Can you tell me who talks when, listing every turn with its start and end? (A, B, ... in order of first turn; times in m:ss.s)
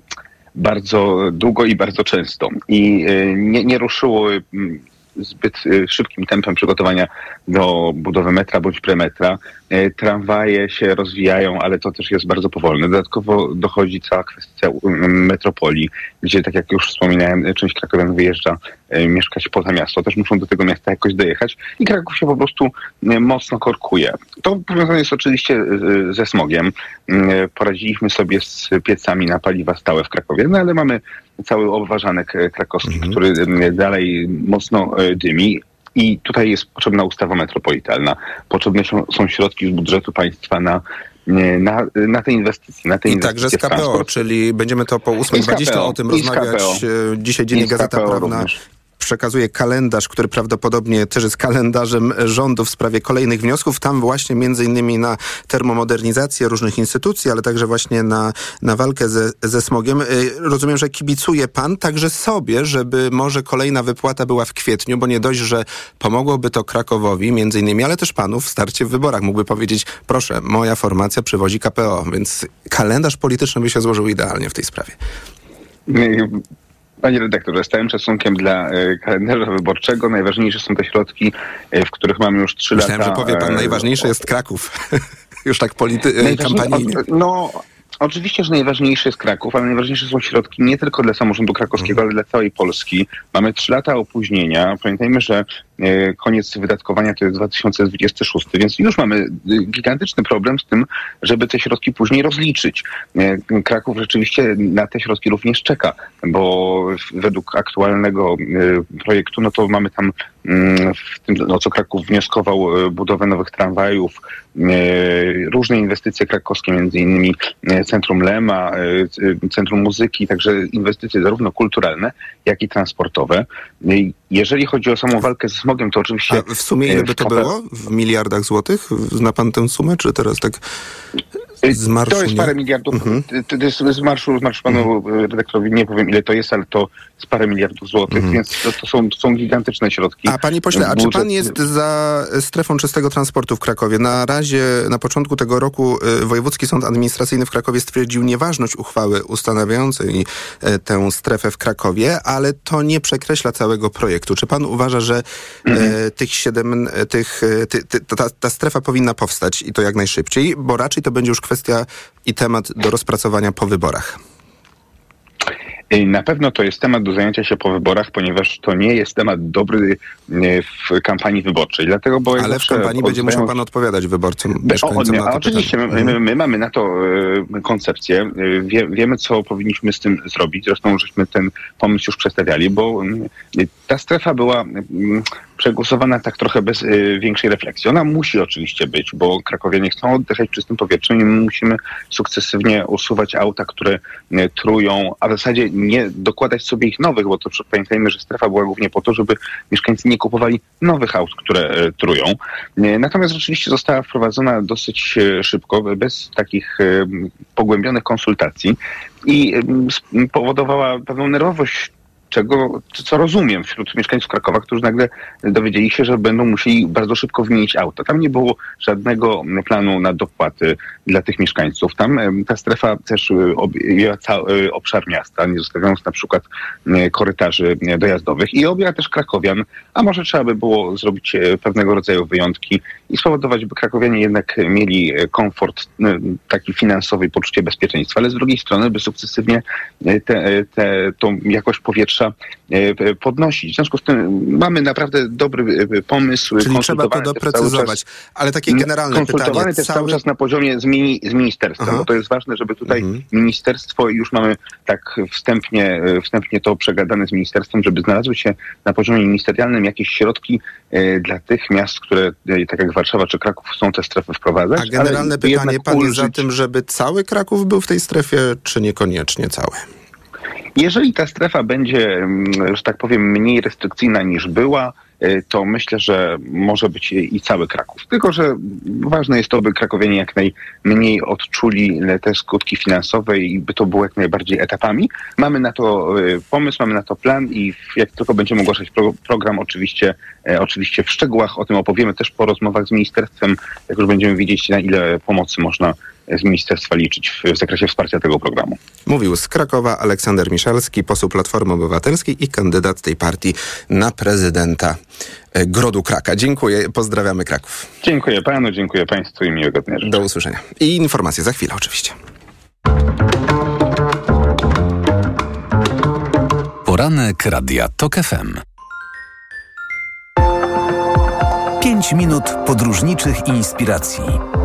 0:00.6-0:44.2 A
0:32.8-0:33.2 B
0:43.1-1:15.0 B
0:45.3-0:46.8 A
0:47.5-0:48.6 A
1:15.9-1:16.4 A
1:17.0-1:24.1 A
1:22.8-1:24.8 B
1:25.4-1:27.0 B
1:26.2-2:07.5 A
2:06.3-2:10.6 B
2:11.6-2:21.5 A
2:11.7-2:13.2 B
2:18.1-2:18.4 B
2:20.3-2:44.2 B
2:35.7-2:35.9 A
2:45.9-2:53.6 A
2:52.4-2:56.2 B
2:54.7-4:08.0 A
4:06.6-4:10.2 B
4:08.7-4:26.4 A
4:11.8-4:12.1 B
4:12.9-4:13.2 B
4:24.8-4:29.8 B
4:30.8-4:58.8 A
4:59.1-5:05.0 B
5:05.5-5:07.9 B
5:08.0-5:10.2 A
5:10.0-5:12.2 B
5:16.9-5:18.6 C
5:21.8-5:24.4 C